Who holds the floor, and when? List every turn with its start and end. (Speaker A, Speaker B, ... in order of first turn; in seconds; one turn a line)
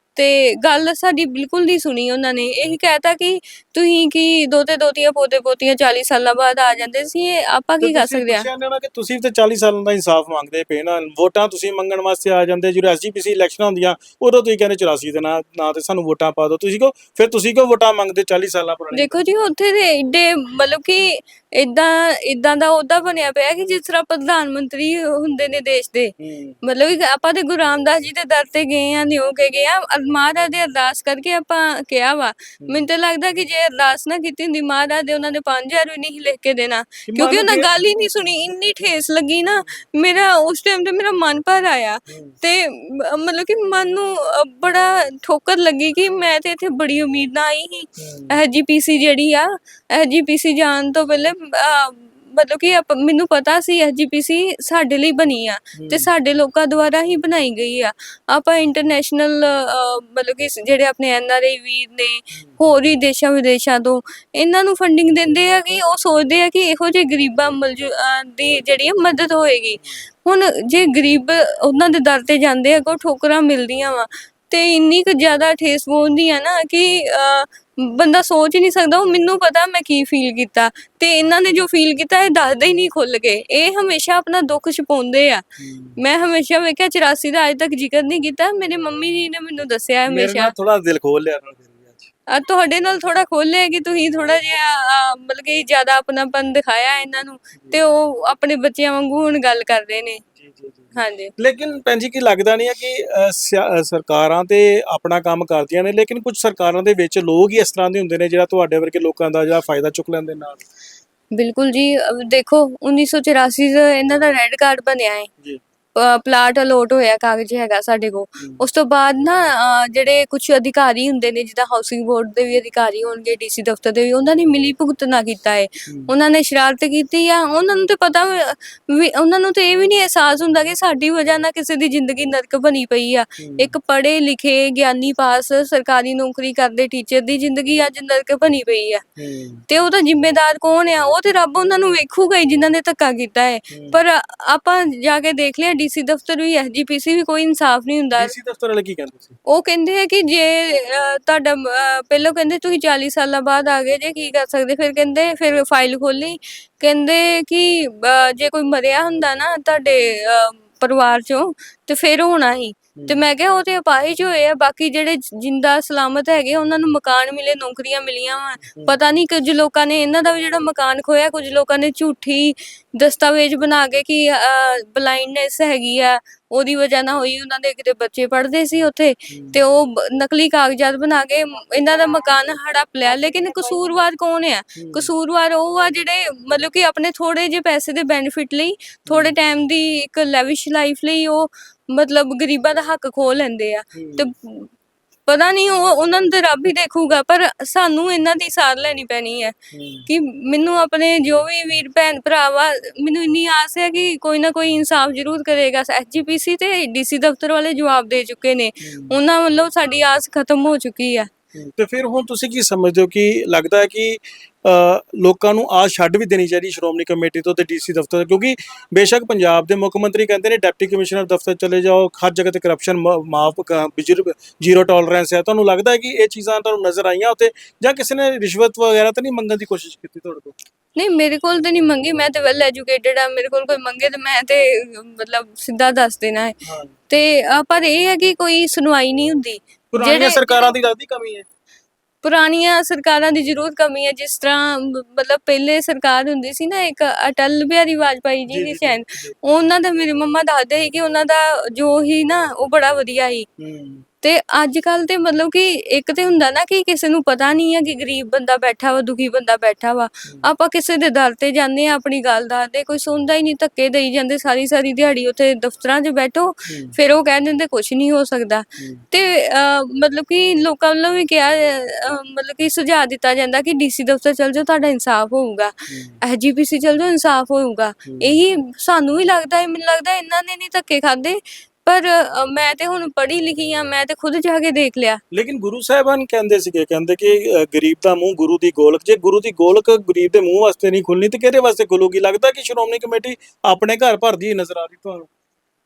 Speaker A: 0.1-8.4
Speaker B: 7.8-19.2
Speaker A: 18.9-85.4
Speaker B: 26.2-26.6
Speaker B: 37.0-37.8
Speaker B: 42.1-42.3
Speaker B: 48.0-48.4
Speaker B: 55.8-56.1
Speaker B: 85.6-86.0
Speaker A: 86.0-90.5
Speaker B: 90.1-92.1
Speaker A: 92.3-100.2
Speaker B: 100.3-110.6
Speaker A: 100.9-101.3
Speaker A: 111.3-115.3
Speaker A: 116.0-139.0
Speaker B: 125.9-126.1
Speaker B: 133.4-133.7
Speaker B: 139.2-139.6
Speaker A: 139.7-148.3
Speaker B: 143.7-144.0
Speaker B: 148.1-149.4
Speaker A: 149.5-194.7
Speaker B: 163.0-163.2
Speaker B: 179.3-179.6
Speaker B: 184.8-185.1
Speaker B: 189.1-189.3
Speaker B: 193.9-194.3
Speaker A: 195.3-199.5
Speaker B: 199.7-200.1
Speaker A: 200.1-211.3
Speaker B: 208.8-209.2
Speaker B: 211.6-230.5
Speaker A: 230.9-236.5
Speaker B: 236.6-236.9
Speaker A: 237.1-240.7
Speaker B: 239.9-241.4
Speaker A: 242.2-253.5
Speaker B: 248.5-249.3
Speaker B: 253.6-254.0
Speaker A: 254.2-285.2
Speaker B: 266.7-266.9
Speaker B: 268.8-269.0
Speaker B: 275.9-276.2
Speaker B: 278.1-278.4
Speaker B: 285.3-295.3